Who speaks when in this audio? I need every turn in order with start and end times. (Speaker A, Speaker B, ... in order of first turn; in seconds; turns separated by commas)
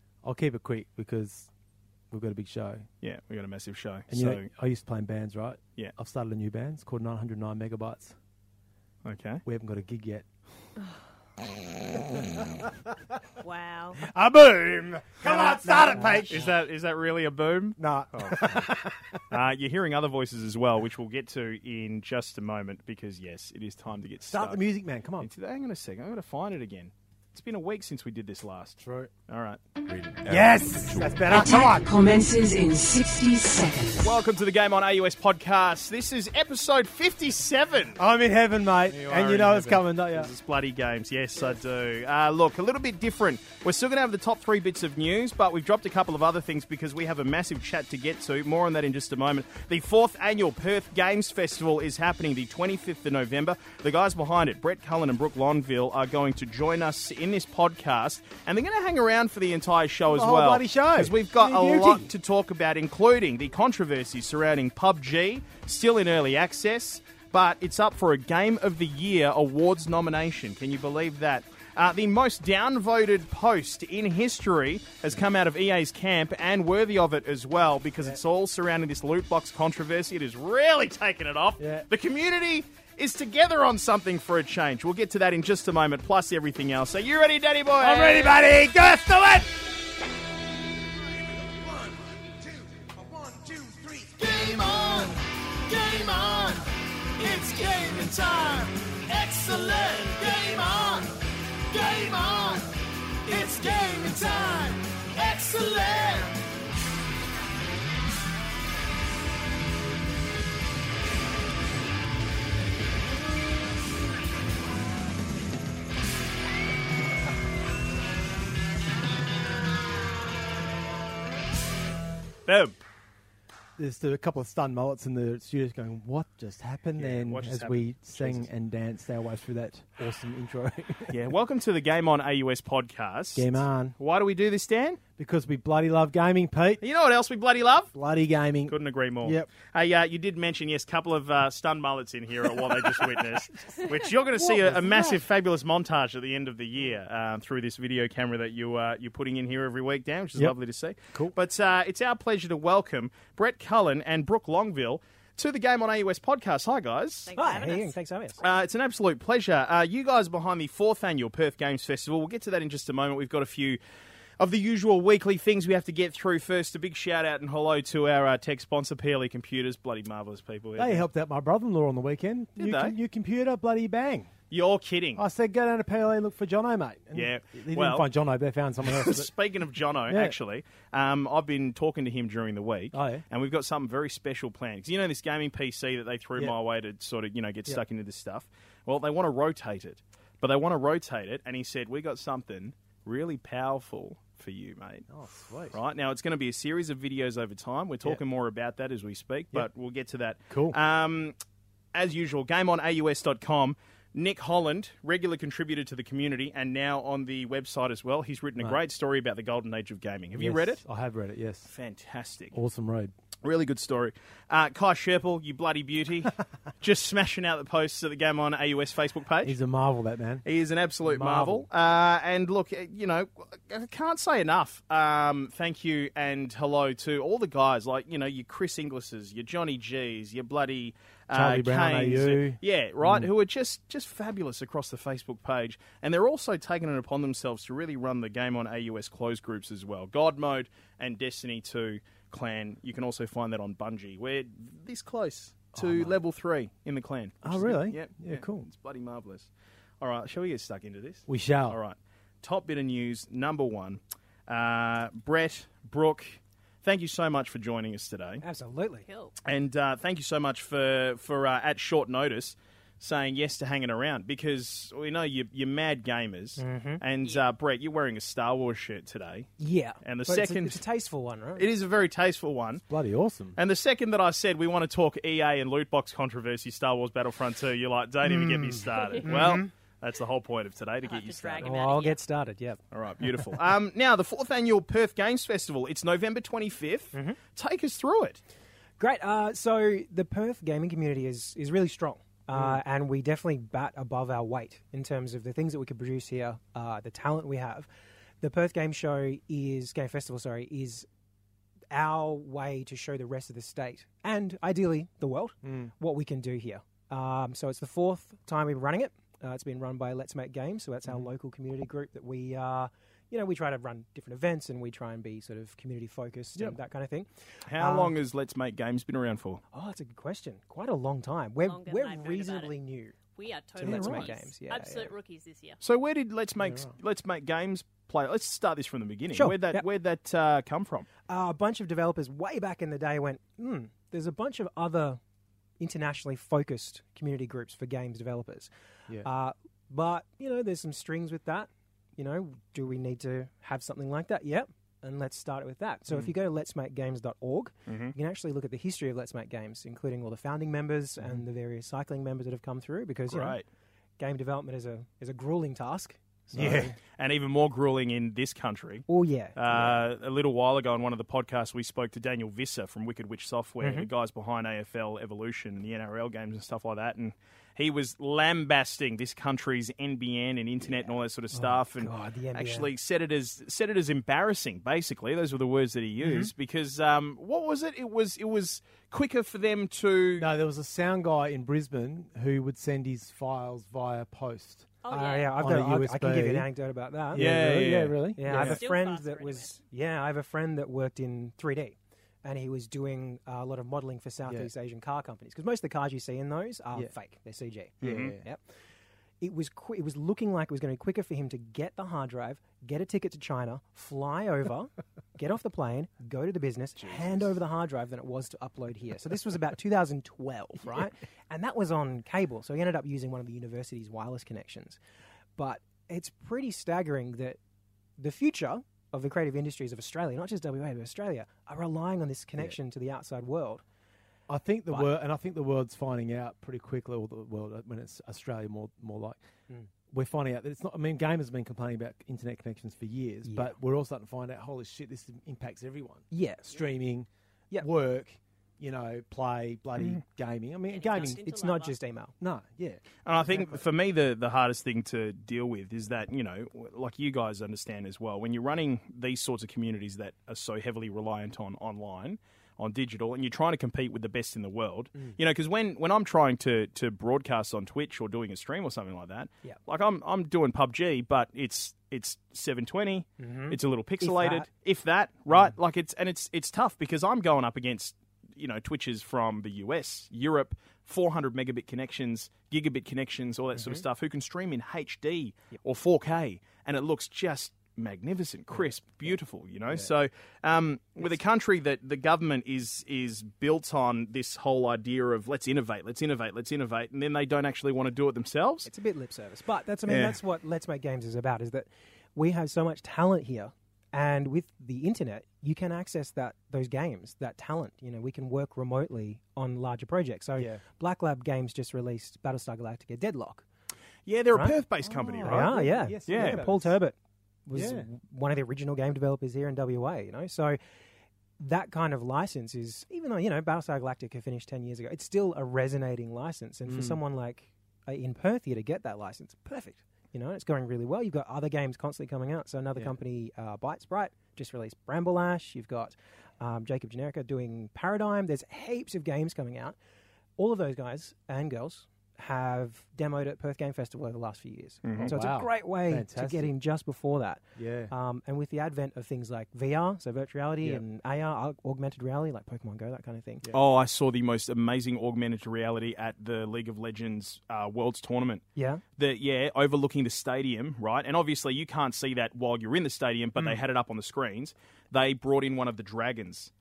Speaker A: 0.2-1.5, Speaker A: 2.1-2.9, Speaker B: 3.0-4.5, Speaker A: 4.1-8.2, Speaker B: 9.1-9.4, Speaker A: 9.4-10.3, Speaker A: 11.7-13.2, Speaker C: 13.4-14.0, Speaker A: 14.0-16.6, Speaker D: 15.7-16.2, Speaker B: 16.3-18.5, Speaker A: 17.8-19.4, Speaker B: 19.3-24.6, Speaker A: 24.3-25.3, Speaker B: 25.2-29.6, Speaker A: 28.8-29.1, Speaker A: 30.2-32.2, Speaker E: 31.3-34.0, Speaker B: 34.0-38.0, Speaker A: 38.0-40.3, Speaker B: 38.9-88.4, Speaker A: 60.1-62.1, Speaker A: 81.6-81.9, Speaker A: 87.8-89.6, Speaker A: 90.8-101.2, Speaker A: 101.7-106.4, Speaker B: 122.5-122.8, Speaker A: 123.8-131.3, Speaker B: 127.0-128.5, Speaker B: 131.1-135.0, Speaker A: 133.3-134.0, Speaker A: 135.2-136.9, Speaker B: 136.8-137.9, Speaker A: 137.9-139.5, Speaker B: 138.7-157.3, Speaker A: 142.8-143.8, Speaker A: 144.3-145.2, Speaker C: 157.3-158.0, Speaker D: 157.4-158.4, Speaker B: 158.4-163.8, Speaker B: 164.4-171.1, Speaker A: 170.8-174.3, Speaker B: 172.6-173.0, Speaker B: 174.5-175.2, Speaker A: 175.2-179.3, Speaker B: 177.2-178.1, Speaker B: 178.8-195.1, Speaker A: 180.1-180.4, Speaker A: 182.9-183.2, Speaker A: 195.1-195.8, Speaker B: 195.7-201.3, Speaker A: 200.5-200.8, Speaker B: 201.9-210.8, Speaker A: 210.3-211.7, Speaker B: 211.7-212.6, Speaker A: 212.5-213.1, Speaker B: 213.4-219.6, Speaker A: 219.4-220.4, Speaker B: 220.4-258.4, Speaker A: 221.1-221.7, Speaker A: 231.3-233.3, Speaker A: 245.8-246.2, Speaker A: 247.4-248.7, Speaker A: 251.3-251.8, Speaker D: 258.4-259.1, Speaker C: 259.1-259.4, Speaker B: 259.4-269.5, Speaker D: 266.6-267.0, Speaker D: 269.6-271.7, Speaker B: 270.0-270.8, Speaker B: 271.6-272.8, Speaker A: 272.9-273.6, Speaker B: 273.6-281.7, Speaker D: 278.2-279.7, Speaker C: 278.9-279.4, Speaker C: 281.0-282.2, Speaker D: 281.6-282.8, Speaker B: 282.9-288.4, Speaker D: 287.1-287.4, Speaker D: 289.0-297.9, Speaker D: 298.4-301.1, Speaker D: 301.9-318.1, Speaker A: 305.6-305.9, Speaker B: 317.7-319.6, Speaker D: 319.7-323.2, Speaker C: 321.6-322.7, Speaker C: 323.4-325.8, Speaker D: 323.8-325.1, Speaker A: 323.8-324.3, Speaker B: 325.8-331.1, Speaker A: 326.6-326.9, Speaker D: 329.3-329.9, Speaker D: 331.3-335.2, Speaker D: 335.8-353.6, Speaker B: 347.9-348.1, Speaker B: 353.3-353.6, Speaker D: 354.2-356.9, Speaker A: 356.5-356.9, Speaker B: 356.5-380.5, Speaker D: 359.1-360.0, Speaker D: 363.8-364.1, Speaker D: 371.5-372.9, Speaker D: 376.2-376.5, Speaker A: 380.4-384.9, Speaker C: 385.0-385.6, Speaker D: 385.1-387.5, Speaker A: 385.6-386.7, Speaker A: 387.3-388.8, Speaker B: 387.3-388.7, Speaker D: 388.4-398.6, Speaker C: 388.5-389.7, Speaker A: 394.4-394.7, Speaker A: 398.0-398.4, Speaker B: 398.0-398.4, Speaker D: 399.4-415.0, Speaker A: 407.0-407.5, Speaker D: 415.6-417.6, Speaker D: 418.2-423.8, Speaker A: 424.5-429.4, Speaker A: 430.1-441.4, Speaker D: 433.4-433.8, Speaker D: 436.3-436.9, Speaker C: 440.9-441.9, Speaker D: 441.2-442.3, Speaker A: 442.4-443.8, Speaker B: 443.3-488.9, Speaker D: 463.4-464.7, Speaker D: 473.8-474.0, Speaker D: 488.9-503.6, Speaker B: 490.1-490.4, Speaker A: 500.6-500.8, Speaker B: 504.3-506.6, Speaker D: 504.5-504.8, Speaker A: 505.0-506.9, Speaker D: 505.4-510.8, Speaker A: 507.7-508.1, Speaker D: 511.6-530.0, Speaker A: 516.9-517.2, Speaker D: 530.6-543.7, Speaker B: 535.0-535.3, Speaker A: 535.2-536.7, Speaker A: 537.8-538.1, Speaker B: 543.7-548.6, Speaker D: 548.8-549.0, Speaker B: 549.2-556.7